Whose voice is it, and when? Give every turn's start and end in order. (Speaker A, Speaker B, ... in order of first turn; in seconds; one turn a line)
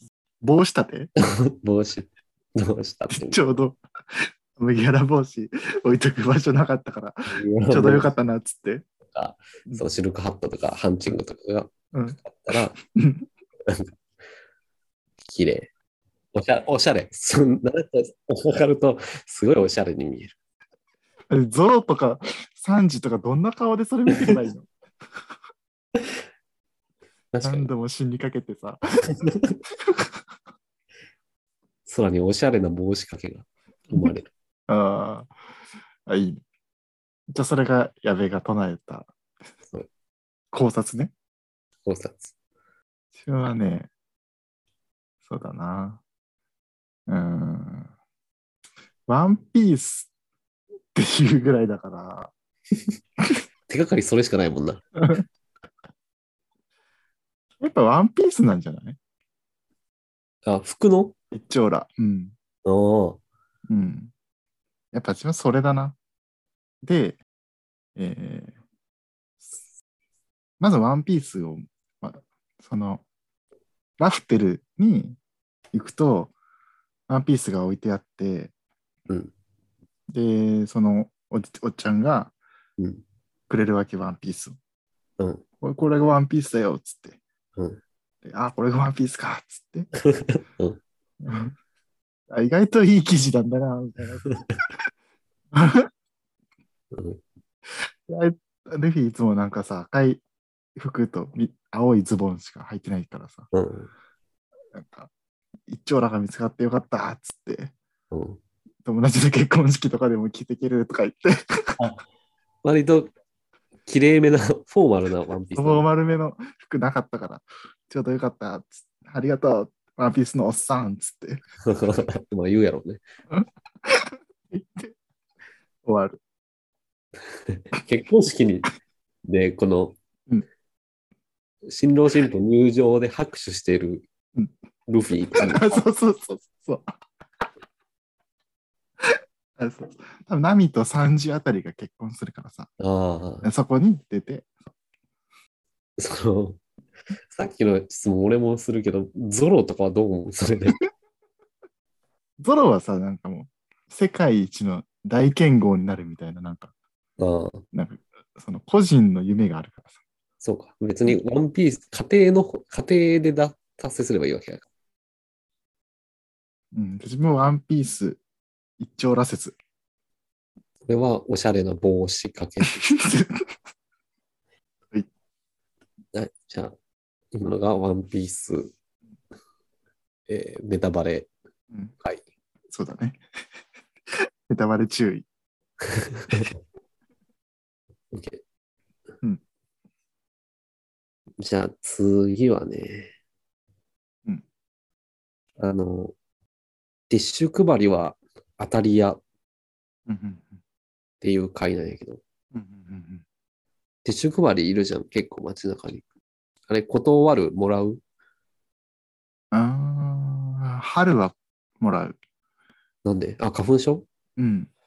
Speaker A: 0.4-1.1
Speaker B: 1.2-3.4
Speaker A: 3.1-8.8
Speaker B: 7.3-8.1
Speaker B: 9.1-12.8
Speaker A: 11.9-13.3
Speaker B: 13.7-13.9
Speaker B: 15.2-15.7
Speaker B: 16.3-20.3
Speaker A: 21.3-24.7
Speaker B: 24.1-24.4
Speaker B: 27.3-27.7
Speaker A: 27.4-29.1
Speaker B: 29.2-29.6
Speaker A: 29.7-30.2
Speaker B: 31.9-34.3
Speaker A: 34.7-35.3
Speaker A: 36.0-36.4
Speaker A: 37.3-39.1
Speaker A: 40.5-41.1
Speaker B: 41.8-42.3
Speaker A: 43.1-43.9
Speaker A: 45.2-46.0
Speaker A: 47.1-47.9
Speaker A: 49.1-50.1
Speaker A: 50.9-52.3
Speaker B: 53.7-54.8
Speaker A: 55.0-55.2
Speaker A: 57.6-59.0
Speaker B: 60.4-61.1
Speaker A: 61.3-62.3
Speaker B: 62.6-63.2
Speaker A: 63.7-64.1
Speaker A: 64.9-66.0
Speaker A: 66.8-67.2
Speaker A: 68.0-68.5
Speaker A: 70.6-73.0
Speaker A: 74.0-75.2
Speaker A: 75.7-76.3
Speaker A: 77.1-78.5
Speaker A: 80.1-82.3
Speaker A: 83.5-84.5
Speaker A: 85.6-87.2
Speaker B: 87.5-87.8
Speaker A: 88.2-89.9
Speaker B: 90.0-90.8
Speaker A: 91.2-91.5
Speaker A: 92.3-94.3
Speaker B: 94.2-94.6
Speaker A: 95.5-95.9
Speaker B: 96.9-97.2
Speaker A: 97.8-100.2
Speaker A: 100.8-103.5
Speaker B: 103.5-103.9
Speaker A: 104.7-105.1
Speaker A: 105.7-107.7
Speaker B: 108.1-108.4
Speaker A: 108.8-111.8
Speaker B: 112.6-113.1
Speaker B: 113.8-115.9
Speaker A: 115.5-121.4
Speaker B: 121.6-123.0
Speaker A: 123.3-124.9
Speaker A: 125.8-126.2
Speaker B: 127.5-128.7
Speaker B: 129.2-130.0
Speaker B: 131.7-134.1
Speaker B: 134.9-135.6
Speaker A: 135.3-136.9
Speaker A: 139.0-142.7
Speaker B: 142.8-143.5
Speaker A: 143.4-144.5
Speaker B: 146.0-146.6
Speaker B: 147.3-150.8
Speaker A: 152.4-156.7
Speaker B: 157.2-157.6
Speaker A: 157.7-159.9
Speaker B: 160.4-164.6
Speaker A: 166.7-168.2
Speaker A: 168.8-169.6
Speaker B: 170.9-172.9
Speaker A: 172.7-173.5
Speaker B: 176.1-176.7
Speaker B: 177.3-178.7
Speaker B: 180.3-181.3
Speaker A: 182.7-183.2
Speaker A: 184.1-185.2
Speaker B: 185.8-186.5
Speaker B: 188.1-188.4
Speaker B: 191.4-193.1
Speaker B: 195.6-196.1
Speaker B: 197.1-199.2
Speaker A: 200.1-200.6
Speaker B: 201.2-202.2
Speaker A: 202.5-203.2
Speaker B: 204.0-206.0
Speaker B: 206.7-208.0
Speaker A: 209.5-212.2
Speaker B: 213.0-214.0
Speaker A: 214.4-214.7